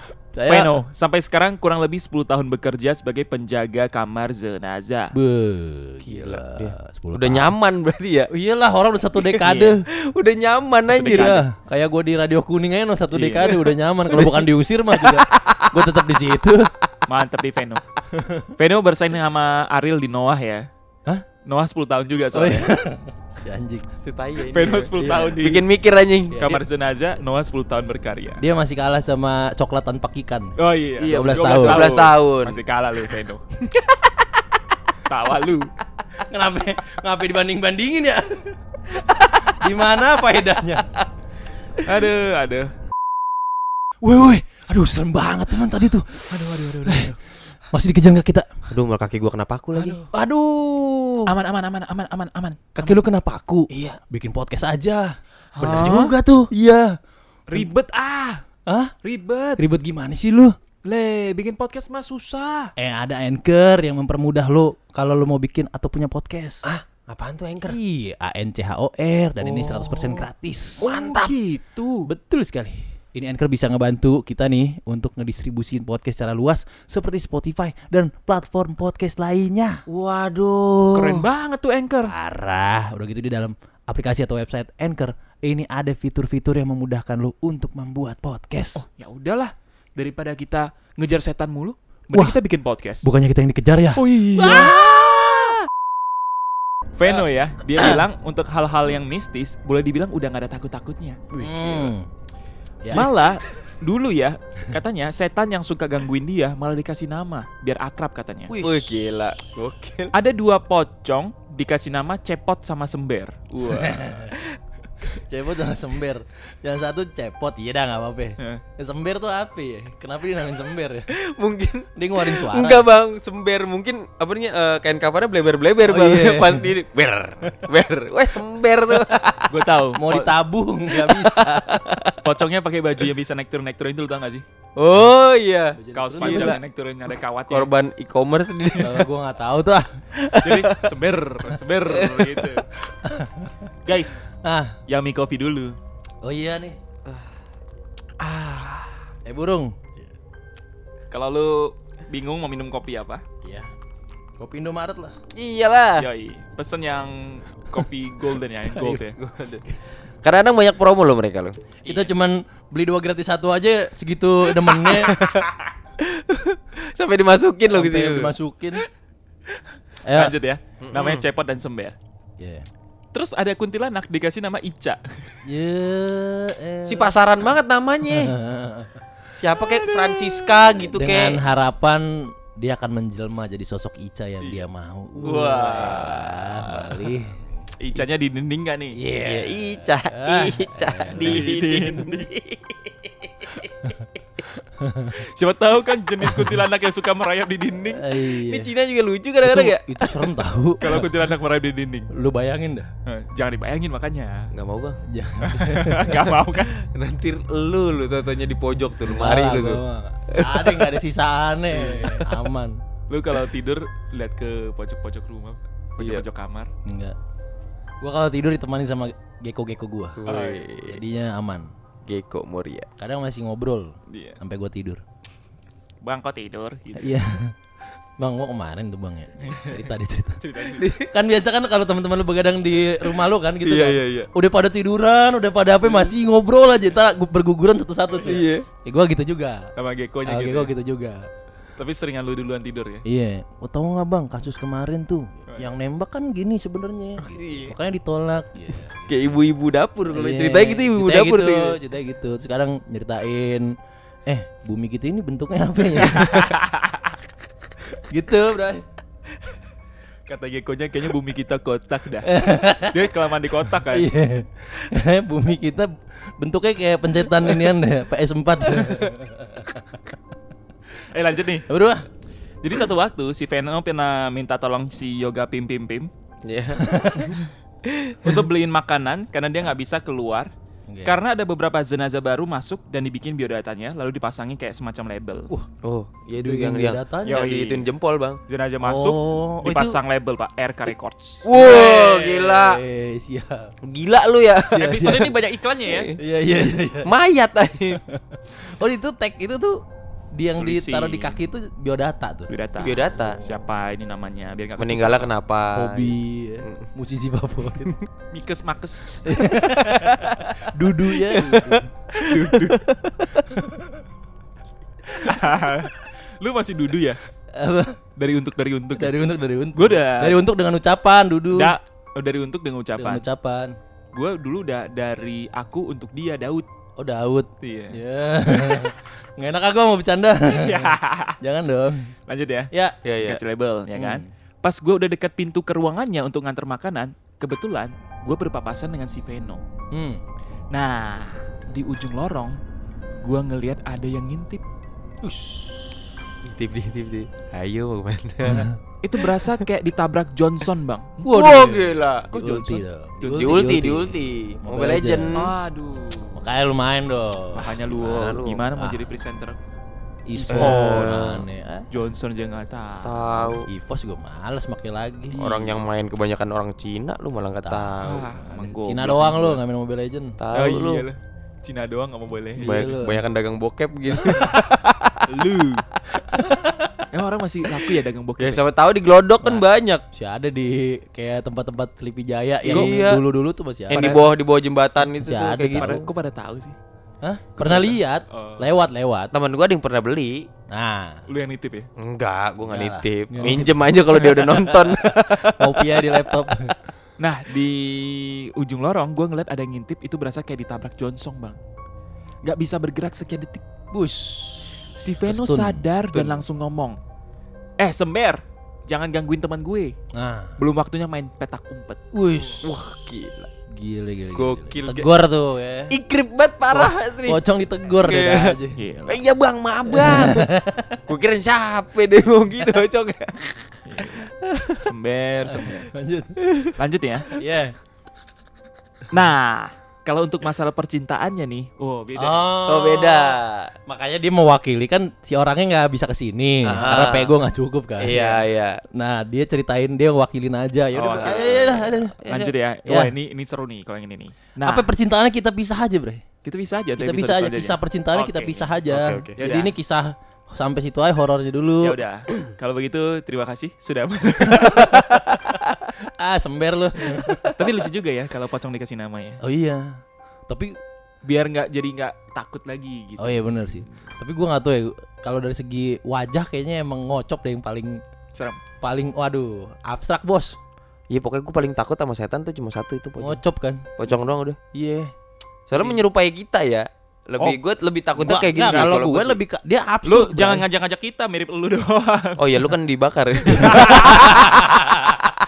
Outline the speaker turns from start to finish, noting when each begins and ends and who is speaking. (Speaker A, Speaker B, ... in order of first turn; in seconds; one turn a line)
Speaker A: 0.3-0.8
Speaker B: 0.5-5.1
Speaker A: 5.1-7.5
Speaker C: 6.0-8.3
Speaker A: 8.3-9.8
Speaker C: 9.2-11.4
Speaker B: 9.4-9.8
Speaker B: 10.9-11.4
Speaker A: 11.1-16.7
Speaker B: 13.1-13.7
Speaker C: 14.1-15.7
Speaker B: 17.1-17.8
Speaker A: 18.1-18.5
Speaker B: 18.6-20.7
Speaker B: 21.5-22.7
Speaker A: 22.3-23.9
Speaker C: 24.0-26.6
Speaker B: 24.4-25.7
Speaker A: 25.0-25.4
Speaker B: 26.4-28.4
Speaker A: 28.4-30.6
Speaker B: 30.6-33.4
Speaker C: 31.0-32.6
Speaker A: 31.1-32.0
Speaker B: 35.1-35.7
Speaker A: 36.3-38.5
Speaker C: 39.1-39.4
Speaker A: 39.5-41.0
Speaker B: 41.8-42.7
Speaker A: 44.0-47.1
Speaker B: 46.3-47.2
Speaker A: 47.7-48.5
Speaker C: 48.7-50.0
Speaker B: 49.8-50.1
Speaker A: 50.1-51.4
Speaker B: 51.3-53.0
Speaker A: 52.8-57.0
Speaker C: 53.7-54.0
Speaker B: 55.6-56.1
Speaker C: 55.7-56.1
Speaker B: 57.5-58.4
Speaker A: 58.7-58.9
Speaker B: 59.0-59.6
Speaker A: 59.6-60.5
Speaker B: 60.8-62.7
Speaker A: 62.8-66.7
Speaker C: 66.6-67.8
Speaker A: 67.7-70.9
Speaker C: 69.4-70.2
Speaker B: 70.8-72.1
Speaker C: 70.8-71.4
Speaker A: 72.1-79.8
Speaker C: 79.9-81.3
Speaker B: 80.9-82.1
Speaker A: 82.1-88.8
Speaker B: 88.8-93.1
Speaker A: 92.1-92.4
Speaker A: 93.0-95.0
Speaker B: 94.0-94.9
Speaker C: 94.6-94.9
Speaker B: 97.0-101.2
Speaker C: 101.3-101.9
Speaker A: 101.4-102.1
Speaker A: 102.8-103.1
Speaker B: 102.9-108.5
Speaker A: 108.5-109.0
Speaker C: 108.6-110.2
Speaker B: 110.1-114.1
Speaker A: 113.7-114.3
Speaker C: 114.3-114.6
Speaker A: 115.0-121.1
Speaker C: 121.1-129.5
Speaker A: 122.0-122.9
Speaker A: 125.8-126.7
Speaker B: 129.5-130.3
Speaker A: 130.0-131.8
Speaker C: 130.9-132.2
Speaker B: 132.2-134.4
Speaker C: 134.8-136.6
Speaker A: 135.8-136.6
Speaker B: 135.9-137.7
Speaker C: 137.5-139.1
Speaker A: 138.8-139.9
Speaker C: 140.2-140.9
Speaker B: 140.4-142.7
Speaker C: 141.9-142.6
Speaker A: 142.9-143.6
Speaker B: 143.9-144.2
Speaker A: 144.4-144.8
Speaker B: 144.9-145.8
Speaker A: 146.2-146.8
Speaker B: 148.2-148.9
Speaker A: 149.3-150.1
Speaker B: 151.1-153.2
Speaker A: 153.4-153.7
Speaker A: 154.4-155.1
Speaker C: 155.3-156.1
Speaker B: 156.0-159.2
Speaker A: 158.7-159.1
Speaker C: 159.2-159.7
Speaker C: 160.2-161.6
Speaker B: 161.8-162.1
Speaker A: 161.9-165.2
Speaker C: 164.9-165.4
Speaker C: 166.0-168.3
Speaker A: 167.7-168.9
Speaker A: 170.1-170.4
Speaker B: 170.1-172.0
Speaker C: 170.8-171.2
Speaker A: 172.4-172.7
Speaker B: 173.1-175.4
Speaker A: 175.5-177.2
Speaker C: 176.9-178.3
Speaker A: 178.1-179.0
Speaker C: 179.4-181.5
Speaker B: 179.8-180.7
Speaker A: 180.8-187.4
Speaker B: 184.4-184.7
Speaker B: 185.2-187.2
Speaker C: 185.3-186.1
Speaker B: 187.8-189.0
Speaker A: 189.0-191.5
Speaker C: 189.2-193.5
Speaker B: 191.1-192.3
Speaker A: 194.8-195.1
Speaker B: 195.1-198.4
Speaker A: 197.9-198.7
Speaker C: 198.4-200.1
Speaker A: 199.4-201.1
Speaker B: 200.8-202.1
Speaker A: 202.1-202.9
Speaker B: 203.1-204.5
Speaker C: 204.5-205.0
Speaker A: 205.1-206.2
Speaker B: 205.4-206.8
Speaker C: 206.6-211.0
Speaker A: 209.1-212.8
Speaker B: 211.7-212.5
Speaker B: 213.1-216.7
Speaker C: 216.0-216.2
Speaker A: 216.9-217.2
Speaker A: 218.0-220.2
Speaker C: 220.2-221.0
Speaker B: 220.3-220.7
Speaker A: 220.8-221.7
Speaker C: 222.1-222.9
Speaker A: 223.0-225.0
Speaker B: 224.1-224.4
Speaker B: 226.0-227.1
Speaker A: 226.9-227.5
Speaker A: 228.2-239.7
Speaker B: 229.4-231.0
Speaker C: 233.6-234.3
Speaker C: 235.8-236.1
Speaker C: 238.2-238.7
Speaker B: 239.8-240.7
Speaker A: 240.3-241.2
Speaker B: 241.8-243.0
Speaker A: 243.1-249.2
Speaker C: 247.2-247.7
Speaker C: 249.1-251.8
Speaker A: 250.1-253.7
Speaker A: 254.3-256.5
Speaker B: 256.1-257.1
Speaker A: 258.1-258.8
Speaker B: 260.3-264.1
Speaker A: 262.3-263.1
Speaker A: 263.8-270.0
Speaker C: 268.7-269.1
Speaker B: 271.1-271.7
Speaker A: 271.7-272.1
Speaker B: 272.6-276.1
Speaker C: 276.4-278.4
Speaker A: 276.8-277.4
Speaker B: 278.2-280.5
Speaker A: 280.9-281.2
Speaker B: 281.1-285.5
Speaker C: 285.8-288.4
Speaker A: 286.4-287.5
Speaker B: 287.2-287.9
Speaker B: 288.5-291.6
Speaker A: 288.8-290.0
Speaker C: 291.4-292.8
Speaker A: 291.5-293.7
Speaker C: 293.8-295.1
Speaker A: 294.7-295.3
Speaker B: 294.8-296.1
Speaker C: 295.9-296.2
Speaker A: 296.2-297.1
Speaker C: 297.0-298.0
Speaker A: 298.0-299.8
Speaker A: 300.3-302.5
Speaker B: 300.6-301.4
Speaker B: 302.5-305.3
Speaker C: 302.8-303.4
Speaker C: 304.8-306.9
Speaker A: 305.7-307.9
Speaker B: 308.3-309.3
Speaker A: 309.3-311.9
Speaker C: 309.8-310.6
Speaker C: 311.2-313.4
Speaker B: 312.2-312.8
Speaker A: 313.5-313.9
Speaker B: 315.1-317.2
Speaker A: 317.5-318.0
Speaker B: 318.2-319.1
Speaker A: 319.0-321.8
Speaker B: 319.8-320.4
Speaker B: 321.5-323.3
Speaker A: 323.0-323.7
Speaker B: 324.1-326.7
Speaker A: 327.0-332.1
Speaker B: 327.6-328.9
Speaker B: 330.5-331.4
Speaker B: 332.3-339.6
Speaker A: 332.7-333.0
Speaker C: 333.0-333.4
Speaker A: 333.9-334.3
Speaker A: 339.9-340.2
Speaker B: 340.7-342.6
Speaker B: 343.2-344.6
Speaker A: 345.4-345.7
Speaker C: 346.5-348.7
Speaker A: 348.4-348.8
Speaker B: 349.0-351.6
Speaker C: 349.2-349.7
Speaker C: 351.2-352.3
Speaker A: 351.2-355.5
Speaker B: 352.3-353.9
Speaker C: 353.3-355.5
Speaker B: 355.3-356.4
Speaker A: 356.3-357.8
Speaker B: 357.5-359.6
Speaker C: 357.9-358.7
Speaker A: 358.8-359.1
Speaker A: 360.3-361.9
Speaker B: 360.4-361.1
Speaker C: 360.5-361.5
Speaker B: 361.9-363.5
Speaker C: 363.0-363.7
Speaker A: 363.7-365.4
Speaker B: 365.3-365.8
Speaker C: 365.4-368.2
Speaker A: 367.6-370.4
Speaker B: 368.0-369.6
Speaker C: 370.4-371.1
Speaker B: 370.5-372.9
Speaker A: 372.6-373.2
Speaker C: 372.6-375.2
Speaker B: 375.3-375.9
Speaker A: 376.3-376.9
Speaker B: 377.1-378.7
Speaker C: 378.4-380.0
Speaker A: 379.4-384.2
Speaker B: 382.7-383.1
Speaker C: 382.7-383.2
Speaker C: 383.9-386.1
Speaker B: 383.9-384.3
Speaker A: 385.2-386.0
Speaker B: 385.8-386.8
Speaker A: 387.2-389.3
Speaker B: 387.6-388.7
Speaker C: 389.3-390.5
Speaker A: 390.7-391.2
Speaker B: 391.3-391.9
Speaker C: 392.0-396.5
Speaker A: 392.7-396.7
Speaker B: 397.2-401.6
Speaker B: 402.4-407.0
Speaker A: 403.9-404.6
Speaker A: 405.3-405.8
Speaker C: 406.1-406.4
Speaker B: 407.8-409.9
Speaker A: 410.1-410.6
Speaker B: 410.6-412.0
Speaker A: 412.1-412.7
Speaker C: 412.6-413.5
Speaker A: 413.7-416.0
Speaker C: 414.3-415.1
Speaker C: 415.9-420.5
Speaker A: 416.7-418.8
Speaker B: 418.8-419.2
Speaker A: 419.9-421.0
Speaker C: 421.1-423.8
Speaker B: 423.9-425.9
Speaker C: 424.4-424.9
Speaker A: 425.6-426.4
Speaker C: 426.4-426.7
Speaker B: 426.8-427.3
Speaker A: 427.4-427.7
Speaker B: 429.1-432.5
Speaker A: 432.2-438.4
Speaker C: 432.7-433.7
Speaker C: 436.6-437.4
Speaker C: 438.0-438.8
Speaker A: 438.9-442.2
Speaker B: 440.9-444.9
Speaker C: 441.1-442.5
Speaker A: 442.9-443.1
Speaker A: 444.6-446.2
Speaker B: 446.4-449.8
Speaker A: 447.0-452.0
Speaker C: 448.9-449.4
Speaker B: 451.8-455.2
Speaker A: 454.6-455.4
Speaker A: 456.2-457.6
Speaker B: 457.6-459.4
Speaker A: 459.4-460.8
Speaker B: 461.2-463.9
Speaker A: 463.2-468.0
Speaker B: 468.3-468.6
Speaker A: 468.8-470.6
Speaker C: 471.1-473.4
Speaker A: 473.2-473.9
Speaker C: 474.0-474.6
Speaker A: 474.7-475.1
Speaker C: 475.7-479.4
Speaker B: 475.7-476.0
Speaker A: 478.2-480.7
Speaker B: 478.6-479.0
Speaker B: 480.0-482.8
Speaker C: 482.4-484.1
Speaker B: 483.4-484.7
Speaker A: 483.7-485.3